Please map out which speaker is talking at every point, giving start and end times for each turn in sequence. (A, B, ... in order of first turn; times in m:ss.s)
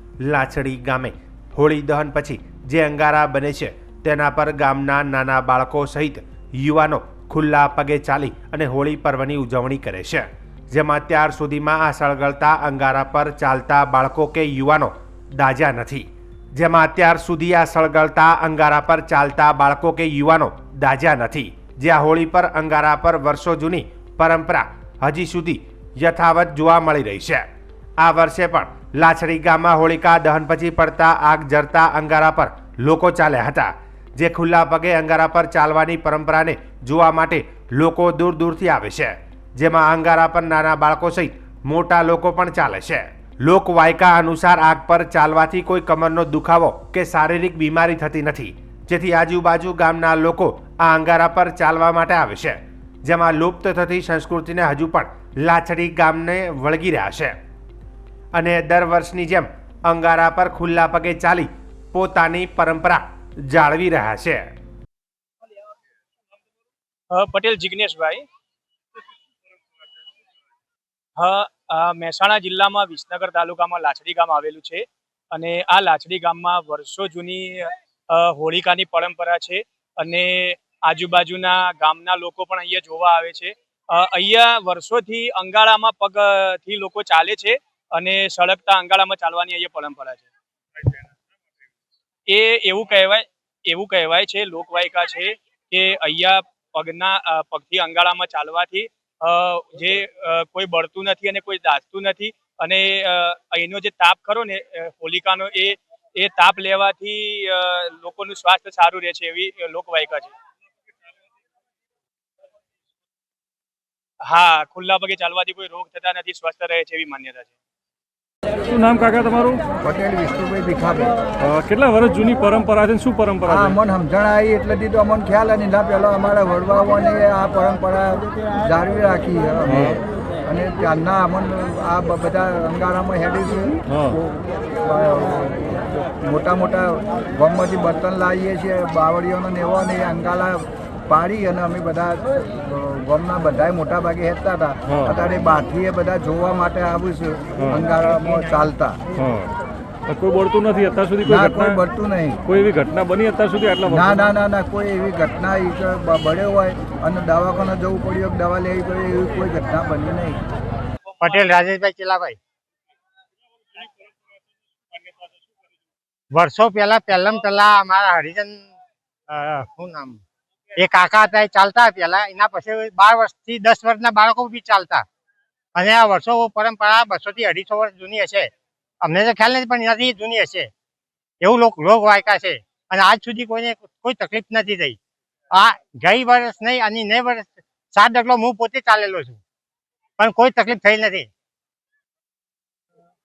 0:00.2-0:27.4 A
0:28.0-0:57.4 A
0:58.4-1:04.5 A
1:07.1-1:08.3 B
1:11.2-1:30.3 B
1:32.3-1:50.3 B
1:54.2-1:57.5 B
1:58.7-1:59.6 C
1:59.8-2:01.2 D
2:01.4-2:03.6 C
2:03.5-2:13.9 D
2:14.8-2:29.0 D
2:30.1-2:31.6 C
2:31.3-2:32.4 D
2:32.5-2:34.2 C
2:33.9-2:40.4 D
2:41.2-2:42.4 E
2:46.3-2:48.7 E
2:49.3-2:50.2 E
2:50.8-2:55.0 E
2:55.8-2:58.5 E
2:59.0-3:00.7 E
3:01.4-3:05.0 E
3:05.5-3:09.4 E
3:10.2-3:11.3 E